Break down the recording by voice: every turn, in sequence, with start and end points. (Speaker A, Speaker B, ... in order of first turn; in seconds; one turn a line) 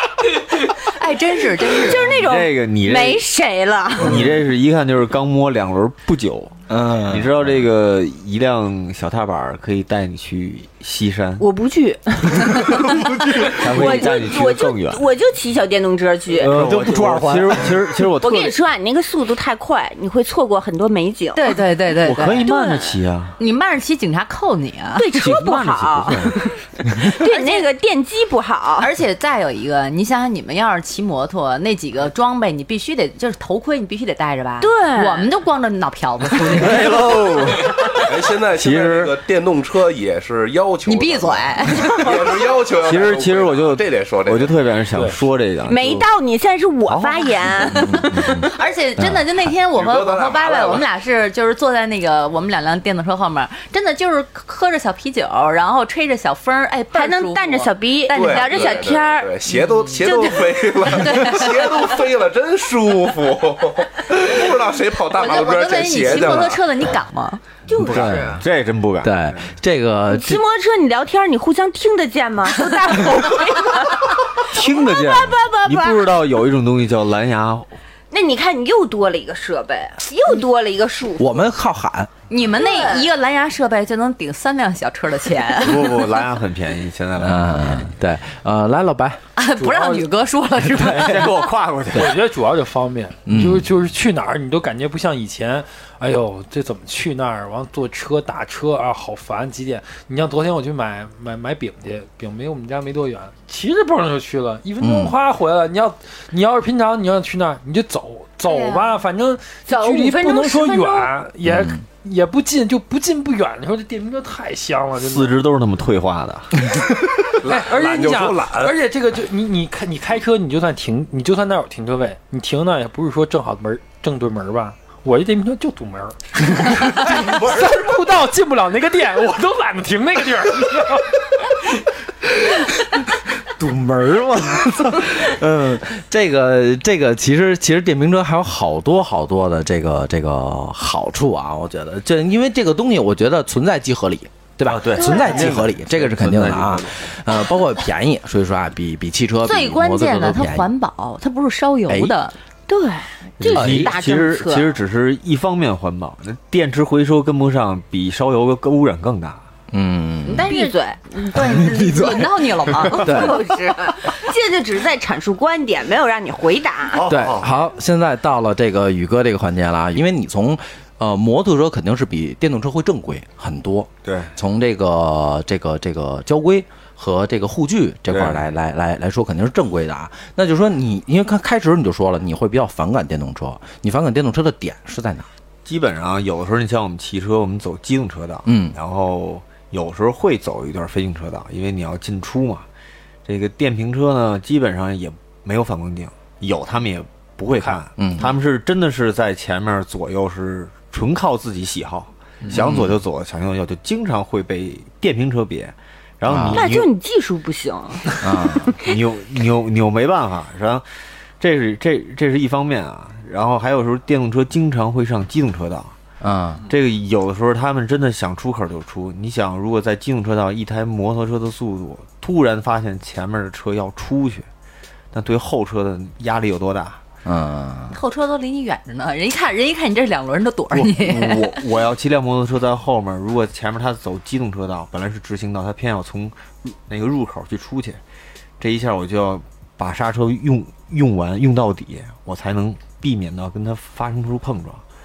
Speaker A: 0.9-2.1
Speaker B: 1.6-4.2
Speaker C: 2.1-3.2
Speaker C: 4.0-6.5
Speaker D: 6.7-7.3
Speaker C: 7.1-11.5
Speaker B: 11.4-16.5
Speaker C: 12.4-15.0
Speaker C: 16.4-18.6
Speaker D: 16.4-17.9
Speaker B: 18.2-21.6
Speaker A: 21.4-22.5
Speaker C: 22.0-23.4
Speaker B: 22.4-23.0
Speaker A: 23.4-25.2
Speaker B: 25.0-26.4
Speaker C: 25.2-26.3
Speaker B: 27.0-28.9
Speaker A: 27.0-27.7
Speaker A: 28.8-37.0
Speaker B: 34.6-35.3
Speaker C: 36.4-39.2
Speaker E: 38.0-44.6
Speaker A: 40.9-42.4
Speaker C: 42.7-46.1
Speaker F: 44.9-45.2
Speaker B: 45.6-48.0
Speaker C: 46.9-48.5
Speaker A: 48.1-58.7
Speaker E: 49.7-50.9
Speaker B: 56.9-59.4
Speaker E: 58.1-66.6
Speaker A: 59.5-61.8
Speaker B: 60.0-60.5
Speaker A: 65.1-67.4
Speaker B: 67.7-68.4
Speaker C: 67.7-69.5
Speaker D: 67.9-68.4
Speaker D: 69.0-70.4
Speaker B: 70.1-76.2
Speaker C: 74.4-77.7
Speaker B: 78.1-81.4
Speaker D: 81.2-82.1
Speaker A: 82.3-86.1
Speaker B: 82.6-83.1
Speaker C: 85.6-87.9
Speaker D: 87.2-89.2
Speaker A: 89.4-91.5
Speaker F: 89.6-90.1
Speaker C: 90.7-92.2
Speaker F: 91.9-115.4
Speaker D: 93.3-93.7
Speaker D: 104.8-105.2
Speaker B: 108.5-109.0
Speaker B: 109.7-111.1
Speaker D: 111.5-111.8
Speaker C: 115.0-116.8
Speaker E: 117.4-118.8
Speaker F: 117.5-131.3
Speaker D: 133.5-150.7
Speaker C: 144.7-147.0
Speaker B: 145.0-145.6
Speaker A: 149.4-152.3
Speaker D: 151.9-152.1
Speaker B: 152.7-154.7
Speaker C: 153.4-159.4
Speaker D: 153.5-153.9
Speaker D: 159.7-160.5
Speaker B: 160.3-161.3
Speaker A: 160.5-163.4
Speaker D: 161.4-163.4
Speaker B: 162.9-167.0
Speaker C: 166.9-167.6
Speaker D: 167.1-185.3
Speaker C: 174.1-174.3
Speaker C: 178.1-178.4
Speaker C: 185.7-192.7
Speaker D: 188.5-188.8
Speaker C: 193.2-206.9
Speaker D: 197.7-198.3
Speaker D: 202.5-203.0
Speaker D: 206.2-206.7
Speaker B: 206.5-208.2
Speaker D: 208.2-208.7
Speaker C: 208.8-210.9
Speaker C: 211.4-215.9
Speaker D: 216.2-216.6
Speaker C: 216.7-224.5
Speaker C: 225.1-227.0
Speaker D: 227.2-227.9
Speaker A: 227.9-231.6
Speaker C: 230.7-238.0
Speaker C: 238.6-244.8